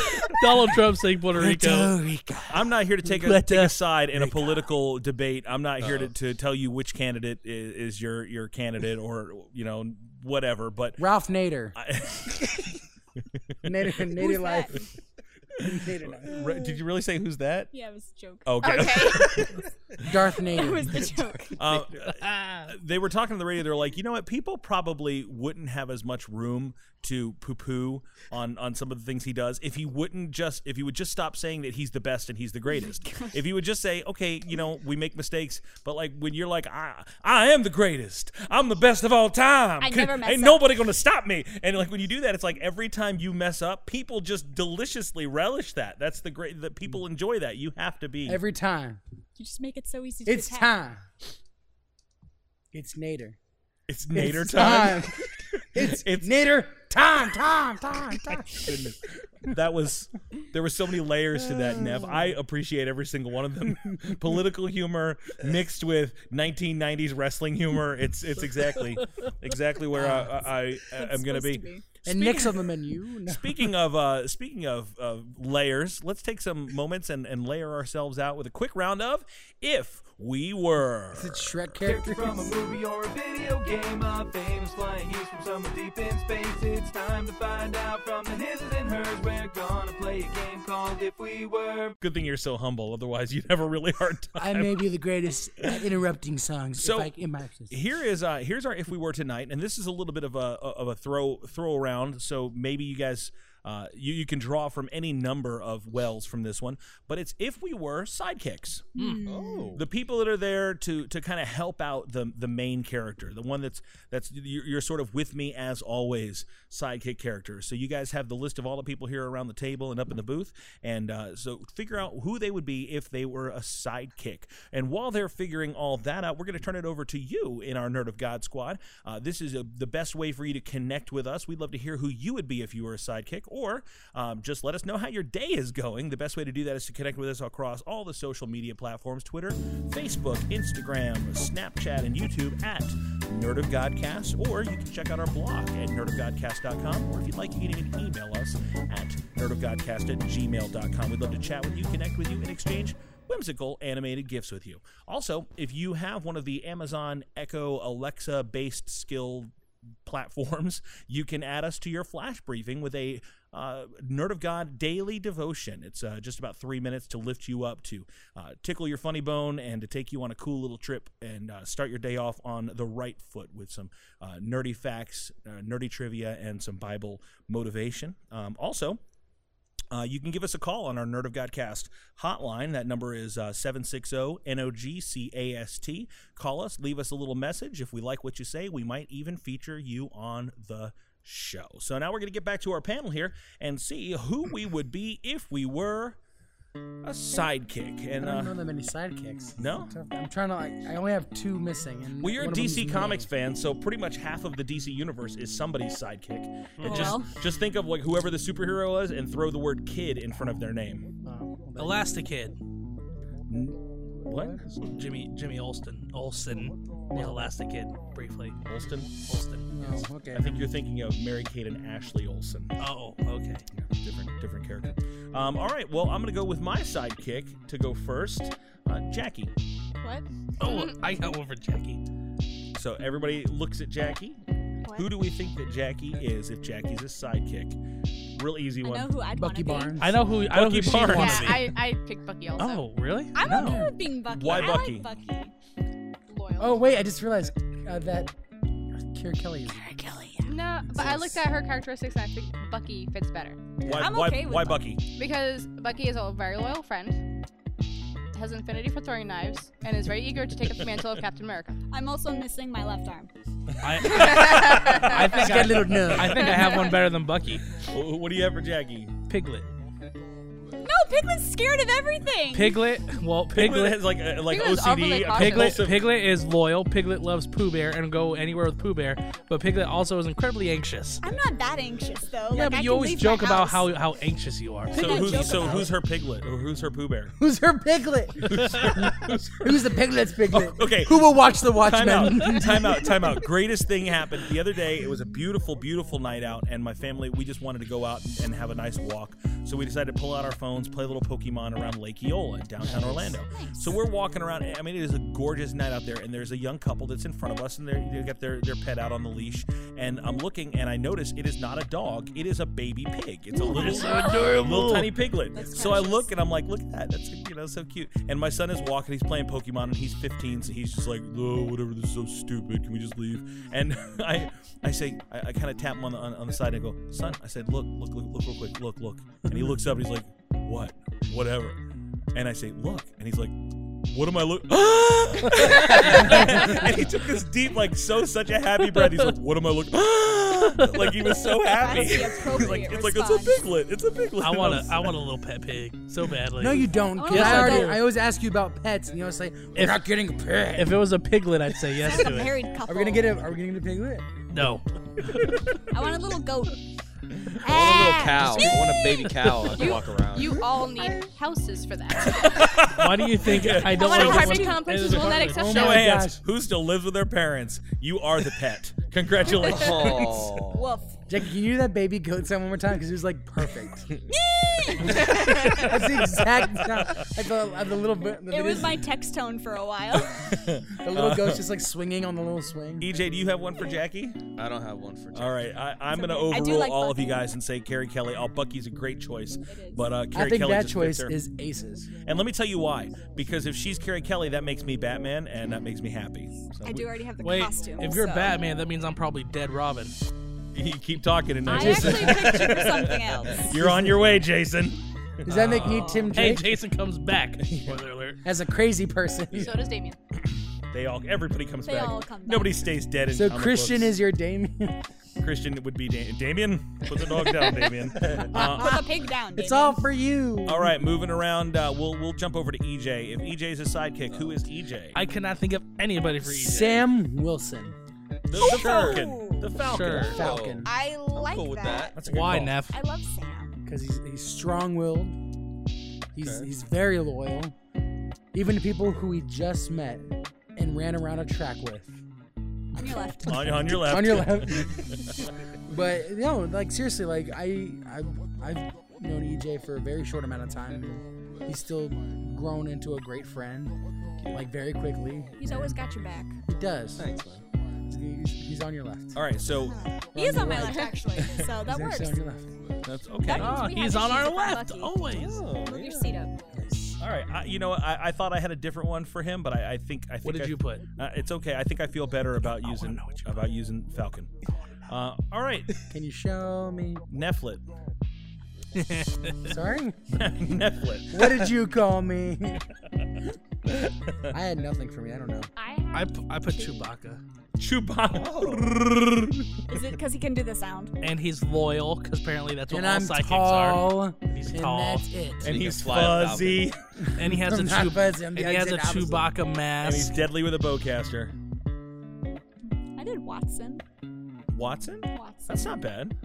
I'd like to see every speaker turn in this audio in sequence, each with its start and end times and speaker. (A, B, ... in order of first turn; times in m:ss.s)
0:00.3-0:02.0 A
0:01.4-0:02.6 B
0:02.5-0:11.0 C
0:03.1-0:04.6 A
0:05.8-0:06.1 D
0:11.0-0:11.8 B
0:11.8-0:12.7 C
0:13.6-0:14.7 B
0:14.2-0:14.7 E
0:15.6-0:16.4 B
0:15.6-0:17.7 C
0:16.5-0:16.7 E
0:17.7-0:19.4 E
0:18.4-0:19.6 C
0:18.6-0:19.4 F
0:20.1-0:21.0 B
0:20.4-0:21.6 E
0:21.6-0:48.4 C
0:21.6-0:22.0 D
0:22.2-0:22.7 A
0:39.8-0:40.7 E
0:48.3-0:49.0 B
0:49.4-0:50.7 E
0:50.3-0:51.0 B
0:52.7-0:53.4 B
0:53.9-0:56.4 C
0:54.1-0:58.9 B
0:58.4-1:12.6 C
1:01.8-1:02.0 B
1:09.9-1:10.4 B
1:10.8-1:11.9 E
1:12.0-1:13.7 B
1:13.3-1:21.7 C
1:21.1-1:22.6 B
1:21.8-1:32.0 G
1:32.0-1:34.9 C
1:34.4-1:37.8 B
1:36.8-1:37.1 C
1:37.7-1:48.9 C
1:49.0-1:49.7 E
1:49.0-1:49.2 A
1:49.2-1:49.8 D
1:49.8-2:39.5 C
2:40.1-2:59.0 C
2:59.9-3:16.2 C
3:17.0-3:18.6 C
3:18.2-3:23.3 B
3:19.6-3:19.9 C
3:22.2-3:31.1 C
3:26.8-3:27.2 D
3:26.8-3:27.3 E
3:26.9-3:27.2 A
3:31.2-3:32.1 B
3:31.8-3:32.6 A
3:33.5-3:34.9 C
3:34.8-3:38.6 A
3:37.1-3:37.5 B
3:38.7-3:39.1 C
3:39.2-3:39.7 A
3:39.7-3:40.7 B
3:40.3-3:42.8 C
3:42.8-3:43.6 A
3:43.9-3:49.5 C
3:50.6-3:52.0 A
3:50.6-3:51.0 F
3:52.8-3:54.4 C
3:54.9-3:57.8 C
3:58.4-3:59.2 C
3:58.8-4:00.0 E
3:59.3-4:00.2 B
4:00.0-4:01.7 A
4:00.5-4:01.6 C
4:01.2-4:02.9 F
4:02.6-4:03.9 A
4:03.3-4:05.5 E
4:03.5-4:03.9 B
4:04.3-4:05.1 C
4:06.3-4:06.8 F
4:06.6-4:08.3 B
4:09.1-4:09.9 B
4:09.8-4:10.5 E
4:10.4-4:13.6 F
4:10.9-4:11.4 B
4:13.8-4:14.2 B
4:13.8-4:15.0 C
4:14.0-4:14.9 E
4:15.2-4:17.2 F
4:18.3-4:21.8 F
4:21.9-4:23.3 E
4:23.8-4:27.6 A
4:24.0-4:25.1 C
4:24.1-4:24.4 E
4:24.2-4:25.2 F
4:25.2-4:26.6 B
4:27.9-4:29.2 C
4:29.3-4:29.7 A
4:30.8-4:32.9 E
4:32.5-4:34.1 A
4:33.5-4:36.1 C
4:34.5-4:35.8 F
4:35.3-4:41.2 A
4:41.2-4:43.9 E
4:42.5-4:45.7 A
4:44.9-4:46.0 E
4:44.9-4:47.3 C
4:47.4-4:53.4 B
4:48.5-4:49.7 C
4:50.5-5:31.8 C
5:02.8-5:03.4 B
5:03.5-5:04.0 E
5:13.6-5:15.2 A
5:13.7-5:14.6 E
5:15.5-5:16.3 E
5:32.4-5:33.5 C
5:34.1-5:45.2 C
5:41.0-5:41.2 A
5:41.6-5:43.6 E
5:44.4-5:48.0 A
5:46.6-5:51.0 B
5:47.2-5:48.0 E
5:49.8-5:50.0 A
5:50.8-5:52.5 A
5:52.0-5:53.4 E
5:52.9-5:54.3 B
5:54.5-5:55.6 A
5:55.9-5:56.8 E
5:57.6-5:59.5 E
5:57.6-6:00.6 D
5:59.7-6:02.6 F
6:02.3-6:04.6 C
6:02.8-6:06.0 A
6:03.9-6:06.1 F
6:04.1-6:05.2 E
6:05.4-6:06.4 B
6:05.6-6:10.5 C
6:09.5-6:10.9 D
6:10.7-6:11.2 E
6:11.3-6:14.1 B
6:14.3-6:16.0 E
6:15.2-6:19.1 B
6:18.5-6:20.6 E
6:20.4-6:21.6 C
6:21.0-6:23.1 B
6:23.0-6:24.4 C
6:24.6-6:25.9 D
6:25.3-6:31.4 C
6:26.1-6:27.5 E
6:29.6-6:30.1 E
6:30.3-6:32.1 B
6:32.2-6:37.2 C
6:36.8-6:38.6 E
6:37.4-6:40.2 A
6:40.8-6:46.1 C
6:41.7-6:43.7 E
6:41.7-6:42.7 B
6:43.7-6:44.4 B
6:45.5-6:46.8 B
6:46.3-6:48.4 A
6:48.4-6:49.8 B
6:49.5-6:50.2 F
6:50.9-6:54.2 C
6:51.8-6:52.9 E
6:53.3-6:55.0 B
6:55.4-6:59.1 C
6:58.4-7:00.0 E
6:58.5-6:59.0 B
6:59.5-7:01.0 B
7:00.7-7:05.2 C
7:05.1-7:07.0 A
7:06.4-7:08.0 B
7:08.5-7:10.4 C
7:08.6-7:09.8 E
7:08.6-7:09.3 D
7:09.9-7:10.4 A
7:10.1-7:12.2 D
7:10.2-7:10.9 B
7:10.8-7:12.2 E
7:12.2-7:12.7 C
7:12.2-7:13.0 A
7:12.9-7:13.8 E
7:13.9-7:15.4 B
7:16.4-7:17.7 B
7:16.4-7:16.7 D
7:18.5-7:22.2 B
7:23.0-7:24.2 E
7:23.4-7:25.2 C
7:23.9-7:25.0 B
7:25.9-7:34.0 B
7:34.5-7:36.0 B
7:35.6-7:36.5 E
7:36.7-7:37.3 B
7:37.2-7:37.6 D
7:38.1-7:39.4 B
7:39.4-7:40.0 C
7:39.8-7:42.4 E
7:40.3-7:42.8 B
7:43.0-7:43.9 C
7:43.4-7:46.6 E
7:43.5-7:45.6 A
7:45.2-7:46.4 D
7:46.7-7:47.2 B
7:47.2-7:54.5 C
7:50.4-7:51.0 A
7:52.6-7:53.7 A
7:55.1-7:55.9 C
7:56.1-7:57.2 B
7:57.3-7:57.8 C
7:59.0-7:59.7 A
7:59.6-8:00.2 B
8:00.4-8:01.6 C
8:01.3-8:02.8 B
8:03.9-8:04.4 C
8:04.5-8:05.7 B
8:05.8-8:07.1 E
8:06.1-8:07.4 A
8:07.8-8:10.0 C
8:08.3-8:09.0 D
8:09.9-8:11.1 E
8:11.2-8:15.2 A
8:12.9-8:15.8 B
8:15.6-8:16.9 D
8:15.6-8:17.0 C
8:17.2-8:19.5 B
8:17.4-8:20.4 A
8:20.0-8:21.5 C
8:23.2-8:24.0 E
8:24.7-8:26.4 C
8:25.3-8:26.0 E